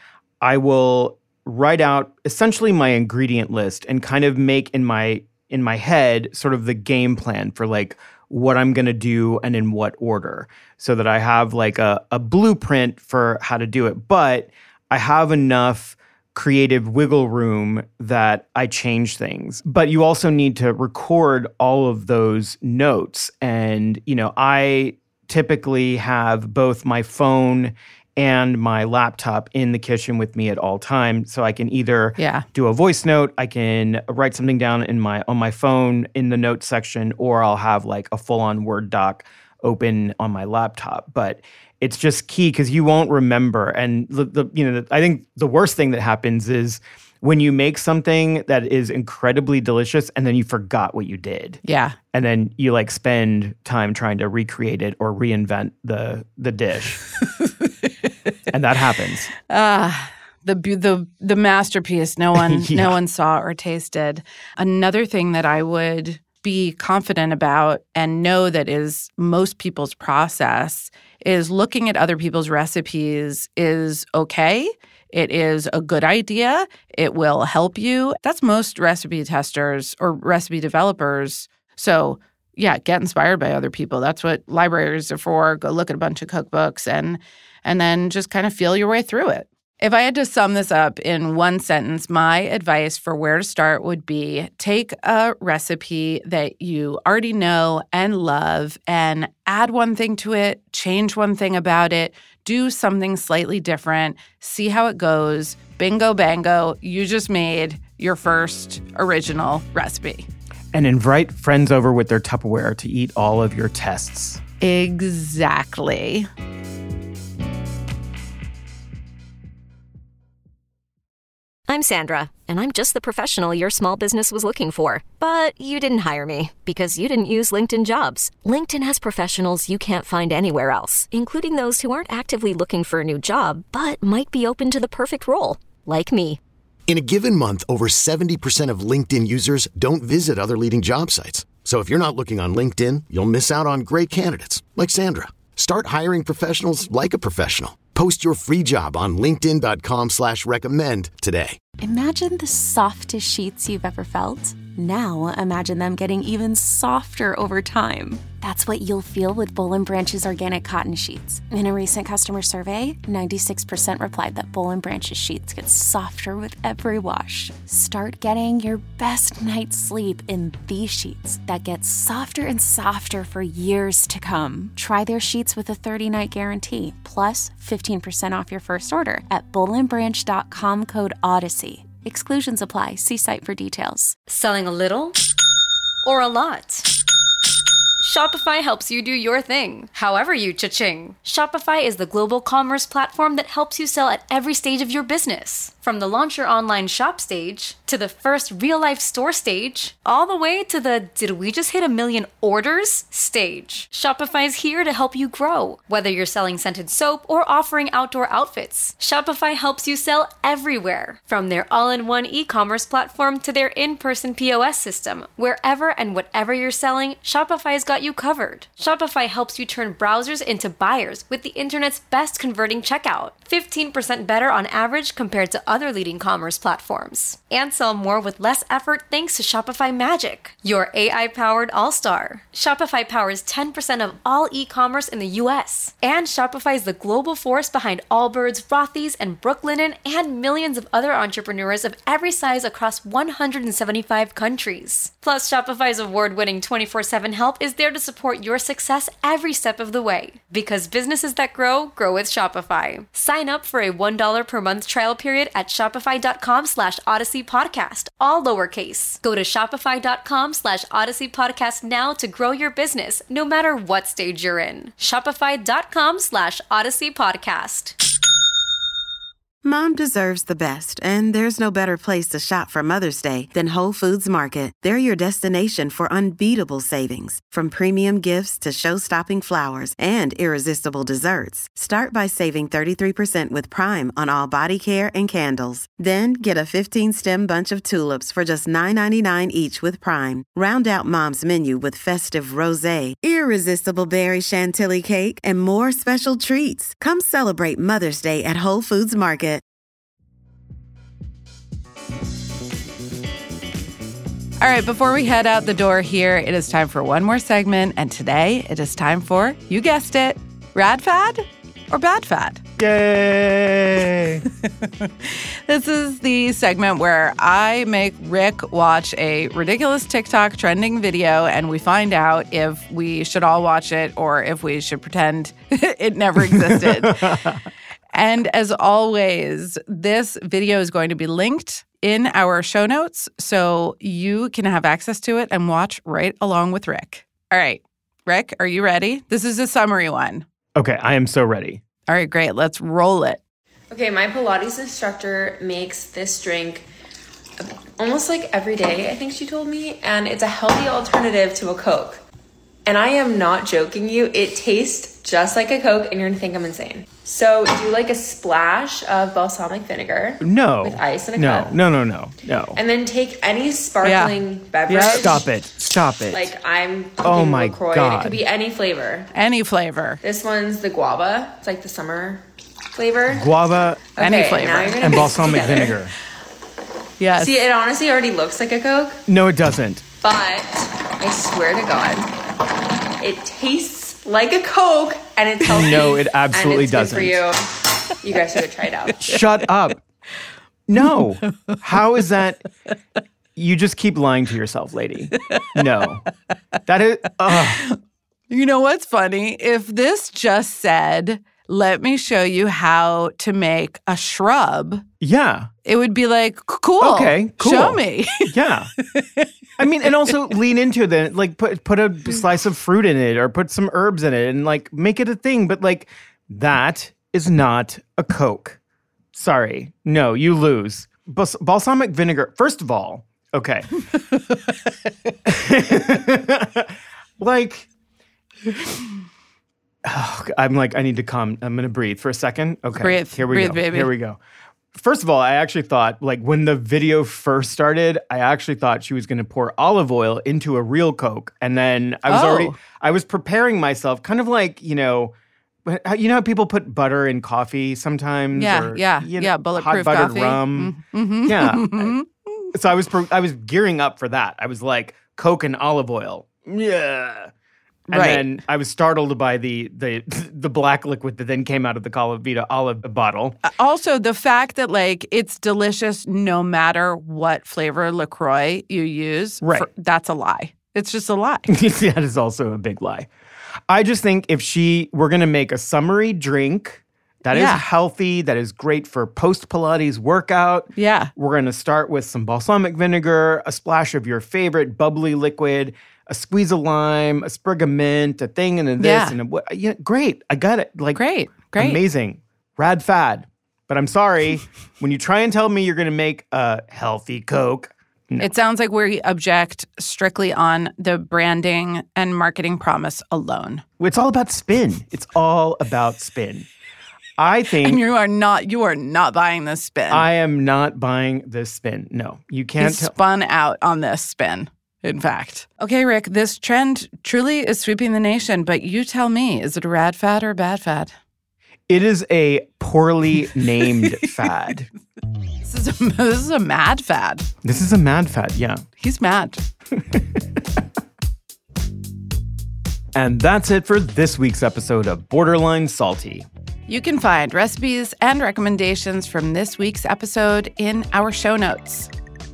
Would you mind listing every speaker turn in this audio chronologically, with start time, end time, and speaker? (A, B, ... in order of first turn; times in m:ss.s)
0:00.4-0:51.6 A
0:32.2-0:32.4 B
0:51.6-0:52.0 B
0:52.1-0:57.0 A
0:57.4-0:57.9 B
0:58.5-0:59.3 A
0:59.5-1:50.3 B
1:02.4-1:03.0 A
1:50.7-1:54.4 A
1:54.6-1:56.3 B
2:01.7-2:16.4 C
2:16.9-2:31.6 D
2:31.8-3:04.2 E
3:04.3-3:05.2 F
3:06.0-3:06.9 F
3:08.0-4:28.0 F
4:29.6-4:59.6 G
5:04.6-5:12.6 B
5:12.8-5:14.4 A
5:14.6-5:27.4 B
5:26.5-5:27.6 A
5:28.1-5:40.4 B
5:40.8-5:41.8 A
5:42.1-5:43.4 B
5:43.9-5:46.9 H
5:47.6-5:52.2 H
5:52.8-6:01.8 H
6:00.4-6:02.8 A
6:02.8-6:05.4 H
6:04.0-6:05.4 B
6:05.2-6:06.5 A
6:06.3-6:09.3 H
6:07.2-6:08.4 A
6:09.3-6:10.2 B
6:10.2-6:12.4 H
6:12.9-6:13.6 H
6:13.3-6:14.0 A
6:14.1-6:16.1 H
6:14.2-6:15.3 B
6:15.0-6:16.1 A
6:17.2-6:17.5 B
6:17.3-6:19.2 H
6:19.3-6:20.0 A
6:20.2-6:22.3 H
6:23.2-6:27.7 H
6:25.7-6:27.4 A
6:28.2-6:29.4 H
6:29.2-6:30.0 A
6:30.9-6:32.6 A
6:33.6-6:36.2 A
6:36.9-6:37.8 A
6:37.5-6:38.0 B
6:38.5-6:45.0 B
6:45.2-6:45.7 A
6:45.8-6:49.4 B
6:47.0-6:48.9 A
6:49.8-6:58.8 A
6:59.3-7:03.9 A
7:05.4-7:07.9 A
7:10.0-7:14.4 A
7:13.0-7:14.1 B
7:14.9-7:25.4 A
7:22.3-7:22.8 B
7:25.9-7:32.2 A
7:28.6-7:32.7 B
7:32.7-7:37.5 A
7:38.1-7:43.6 A
7:38.1-7:38.5 B
7:43.6-7:51.7 B
7:49.6-7:49.9 A
7:51.7-7:53.3 A
7:53.9-8:11.2 A
7:57.5-7:57.8 B
8:00.9-8:01.3 B
8:09.0-8:09.4 B
8:11.1-8:12.0 B
8:11.7-8:18.5 A
8:18.4-8:23.8 B
8:24.0-8:26.7 A
8:27.4-8:28.0 A
8:27.8-8:30.3 B
8:30.1-8:33.1 A
8:32.8-8:41.1 B
8:41.9-8:44.9 A
8:43.8-8:44.2 B
8:45.6-8:47.5 B
8:47.6-8:48.8 A
8:49.0-8:49.6 B
8:50.0-8:50.4 A
8:53.1-8:56.5 A
8:56.9-9:02.1 B